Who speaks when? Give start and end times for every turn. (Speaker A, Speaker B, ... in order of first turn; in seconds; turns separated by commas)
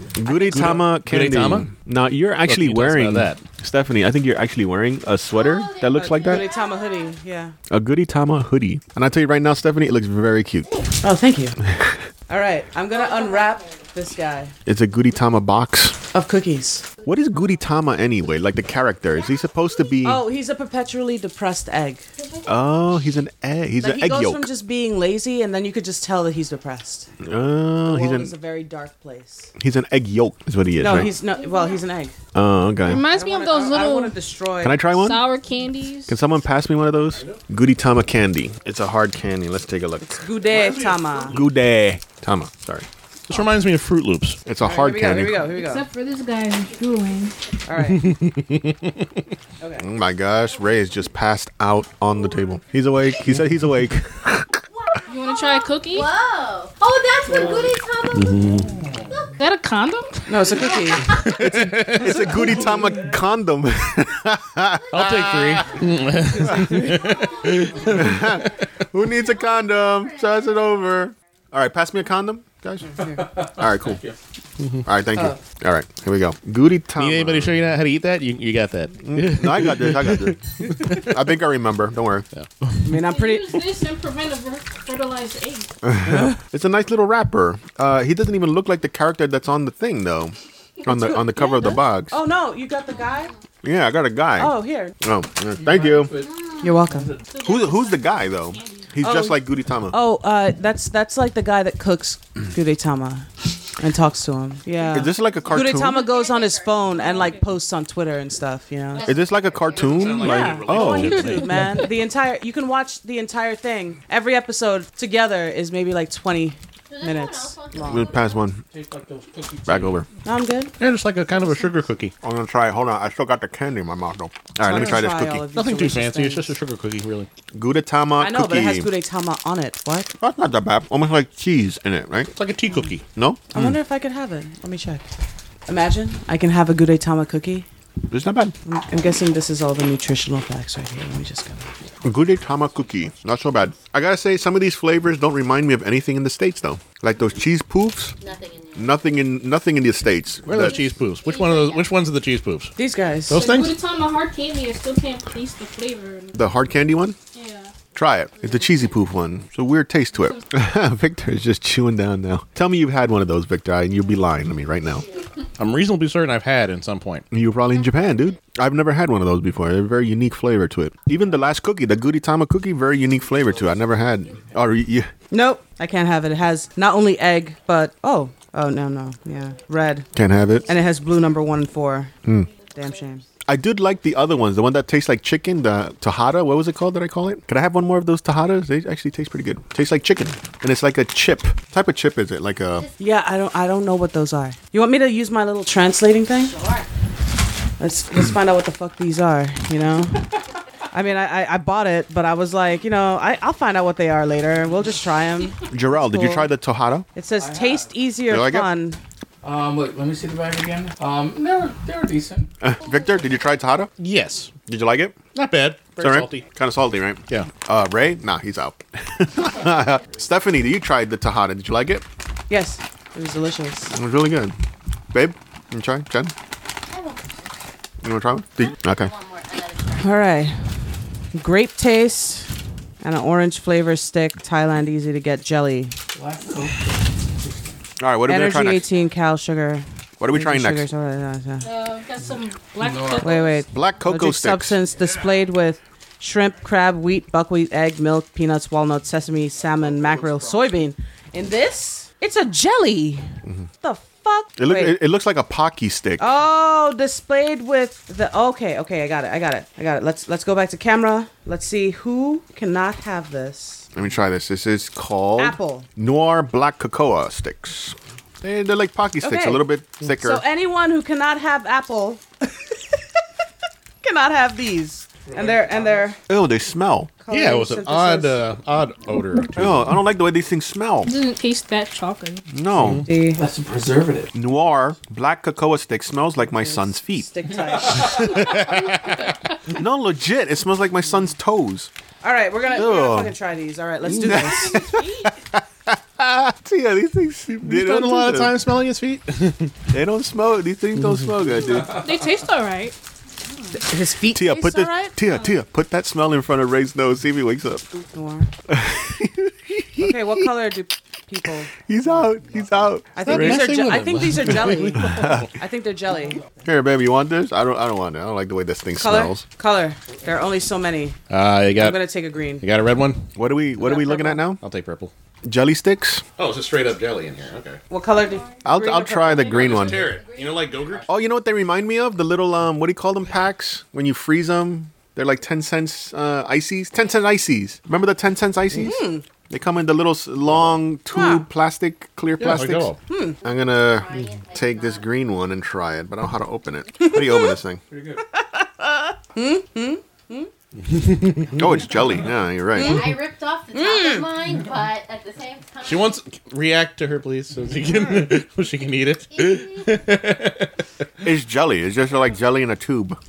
Speaker A: 0.2-6.4, Speaker B: 0.2-0.8, Speaker C: 0.5-1.7, Speaker C: 2.4-3.4, Speaker D: 5.3-7.2, Speaker B: 6.0-7.5, Speaker A: 7.7-10.7, Speaker B: 11.0-11.6, Speaker B: 12.3-14.5, Speaker D: 12.9-13.9, Speaker A: 14.7-15.9, Speaker B: 16.1-16.8, Speaker A: 17.1-20.2, Speaker D: 19.1-20.0, Speaker B: 20.0-22.1, Speaker D: 22.2-22.6, Speaker A: 22.4-24.4, Speaker B: 23.8-27.1, Speaker A: 27.2-28.3, Speaker B: 27.9-29.5, Speaker A: 29.6-31.1, Speaker B: 30.8-32.1, Speaker D: 30.9-31.8, Speaker A: 32.3-33.0, Speaker E: 32.8-34.2, Speaker B: 33.0-34.8, Speaker A: 34.6-35.3, Speaker E: 34.9-36.1, Speaker A: 36.1-40.2, Speaker C: 37.1-37.4, Speaker B: 40.0-41.4, Speaker C: 40.4-41.4, Speaker A: 41.3-42.9, Speaker C: 43.3-44.4, Speaker A: 44.5-45.4, Speaker B: 44.6-45.9, Speaker E: 45.5-47.4, Speaker B: 47.6-48.1, Speaker C: 47.8-49.2, Speaker B: 49.6-49.9, Speaker A: 49.8-54.5, Speaker D: 54.7-58.5, Speaker E: 55.1-56.1, Speaker F: 57.3-57.7, Speaker C: 58.1-58.9, Speaker F: 58.5-59.1, Speaker E: 59.4-60.7, Speaker B: 60.3-61.1, Speaker D: 60.6-61.4, Speaker C: 61.1-62.6, Speaker A: 61.4-65.8, Speaker F: 62.1-63.2, Speaker C: 64.9-68.3, Speaker D: 65.2-65.9, Speaker D: 66.7-71.1, Speaker A: 67.9-72.9, Speaker B: 72.8-73.2, Speaker F: 73.0-74.2, Speaker A: 73.5-74.0, Speaker C: 74.6-74.9, Speaker A: 74.8-77.6, Speaker C: 77.0-81.2, Speaker A: 79.0-82.3, Speaker C: 82.3-82.9, Speaker B: 82.8-83.6, Speaker E: 83.0-85.7, Speaker A: 85.8-92.1, Speaker B: 86.0-86.4, Speaker B: 92.1-93.3, Speaker D: 92.9-93.4, Speaker A: 93.6-96.1, Speaker B: 94.4-94.9, Speaker F: 95.5-97.3, Speaker D: 96.2-96.8, Speaker B: 96.6-97.1, Speaker E: 97.3-98.9, Speaker A: 97.4-100.0, Speaker B: 99.0-109.0, Speaker A: 104.9-106.0, Speaker D: 105.2-107.3, Speaker E: 107.0-107.4, Speaker D: 108.9-110.2, Speaker A: 109.0-111.4, Speaker F: 109.7-111.0, Speaker C: 110.0-111.8, Speaker B: 110.2-118.1, Speaker D: 116.9-118.5, Speaker A: 117.9-118.6, Speaker F: 118.7-120.0, Speaker A: 119.7-120.0, Speaker B: 120.2-120.7, Speaker C: 120.8-122.1, Speaker A: 122.2-125.4, Speaker B: 124.6-126.5, Speaker C: 125.5-127.3, Speaker A: 127.5-128.9, Speaker B: 128.2-130.1, Speaker A: 130.2-132.3, Speaker C: 132.3-133.1, Speaker A: 133.1-133.8, Speaker B: 133.5-135.1, Speaker B: 135.7-137.7, Speaker A: 138.1-138.5, Speaker B: 138.6-141.7, Speaker A: 142.0-148.1, Speaker D: 148.2-149.2, Speaker A: 148.8-150.8, Speaker C: 150.4-152.7, Speaker D: 150.6-151.9, Speaker B: 152.8-153.4, Speaker C: 153.3-153.7, Speaker E: 153.3-156.4, Speaker A: 156.3-157.2, Speaker E: 157.3-157.7, Speaker A: 157.9-165.1, Speaker D: 158.4-159.0, Speaker E: 160.2-160.4, Speaker D: 164.9-165.2, Speaker C: 165.6-167.2, Speaker A: 167.3-175.1, Speaker D: 167.7-168.4, Speaker F: 173.3-174.0, Speaker B: 175.3-180.1, Speaker A: 180.1-180.7, Speaker D: 180.4-180.8, Speaker B: 180.7-182.1, Speaker D: 182.4-183.2, Speaker B: 182.7-183.2, Speaker A: 183.5-192.9, Speaker B: 193.0-196.6, Speaker D: 196.4-196.9, Speaker B: 197.8-200.2, Speaker B: 200.9-206.5, Speaker A: 205.7-207.1, Speaker B: 207.1-209.0, Speaker F: 207.4-207.9, Speaker A: 208.3-208.7, Speaker F: 209.4-212.5, Speaker A: 212.6-213.9, Speaker D: 212.9-213.6, Speaker C: 214.0-214.5, Speaker A: 214.7-215.2, Speaker C: 215.3-216.4, Speaker A: 216.0-222.1, Speaker F: 219.5-220.2, Speaker B: 222.5-223.9, Speaker A: 223.9-224.5, Speaker A: 225.1-226.3, Speaker D: 226.9-227.4, Speaker A: 228.0-229.1, Speaker D: 228.6-230.3, Speaker B: 230.0-230.6, Speaker B: 231.3-232.5, Speaker B: 233.0-235.9, Speaker F: 236.1-237.8, Speaker A: 238.0-238.8, Speaker B: 238.3-241.7, Speaker D: 238.8-239.1, Speaker A: 240.2-240.9, Speaker E: 241.6-243.6, Speaker F: 242.8-243.4, Speaker B: 243.2-253.3, Speaker A: 243.7-244.8, Speaker F: 245.0-245.3, Speaker F: 249.6-250.7, Speaker B: 253.8-255.0, Speaker A: 254.6-256.3, Speaker B: 256.2-263.9, Speaker A: 263.9-270.4, Speaker B: 265.4-265.9, Speaker B: 269.2-272.9, Speaker B: 274.0-276.2, Speaker F: 275.2-276.1, Speaker A: 276.3-277.1, Speaker B: 277.2-278.4, Speaker C: 277.3-280.0, Speaker A: 279.6-281.1, Speaker E: 281.1-282.4, Speaker A: 282.5-283.1, Speaker C: 282.7-283.1, Speaker B: 283.1-283.4, Speaker F: 283.3-284.4, Speaker A: 284.3-287.3, Speaker B: 286.5-288.4, Speaker F: 287.5-288.4, Speaker C: 288.1-289.2, Speaker A: 289.7-291.9, Speaker B: 292.2-294.8, Speaker A: 292.7-293.3, Speaker A: 294.2-298.6, Speaker E: 294.2-295.3, Speaker C: 297.6-299.7, Speaker A: 299.9-302.0, Speaker C: 301.0-301.2, Speaker F: 301.6-302.4, Speaker E: 301.9-302.9, Speaker B: 303.7-305.1, Speaker A: 304.3-307.9, Speaker B: 308.1-308.5, Speaker A: 308.7-310.5, Speaker B: 310.0-311.7, Speaker A: 311.9-313.6, Speaker F: 312.0-312.9, Speaker B: 313.1-316.4, Speaker C: 313.3-315.5, Speaker A: 314.9-315.5, Speaker F: 316.3-316.8, Speaker A: 316.6-319.4, Speaker B: 319.0-321.2, Speaker F: 320.1-320.4, Speaker C: 321.3-322.0, Speaker B: 321.8-322.6, Speaker C: 322.6-323.3, Speaker A: 323.3-324.6, Speaker B: 323.8-324.4, Speaker C: 324.6-325.1, Speaker A: 325.4-326.2, Speaker C: 326.4-327.8, Speaker B: 327.9-329.7, Speaker D: 328.1-328.6, Speaker A: 328.6-330.1, Speaker C: 329.4-331.1, Speaker D: 329.6-330.8, Speaker A: 331.1-347.8, Speaker B: 338.7-339.2, Speaker C: 340.4-340.8, Speaker B: 341.1-341.5, Speaker C: 342.4-343.0, Speaker B: 343.1-343.4, Speaker D: 343.4-345.1, Speaker B: 347.0-347.6, Speaker F: 347.9-348.2, Speaker B: 348.3-350.5, Speaker C: 350.8-351.9, Speaker A: 351.6-353.1, Speaker F: 352.0-352.3, Speaker B: 352.7-353.1, Speaker D: 352.7-356.1, Speaker B: 353.7-354.3, Speaker C: 355.8-360.8, Speaker D: 359.3-360.0, Speaker A: 361.2-363.2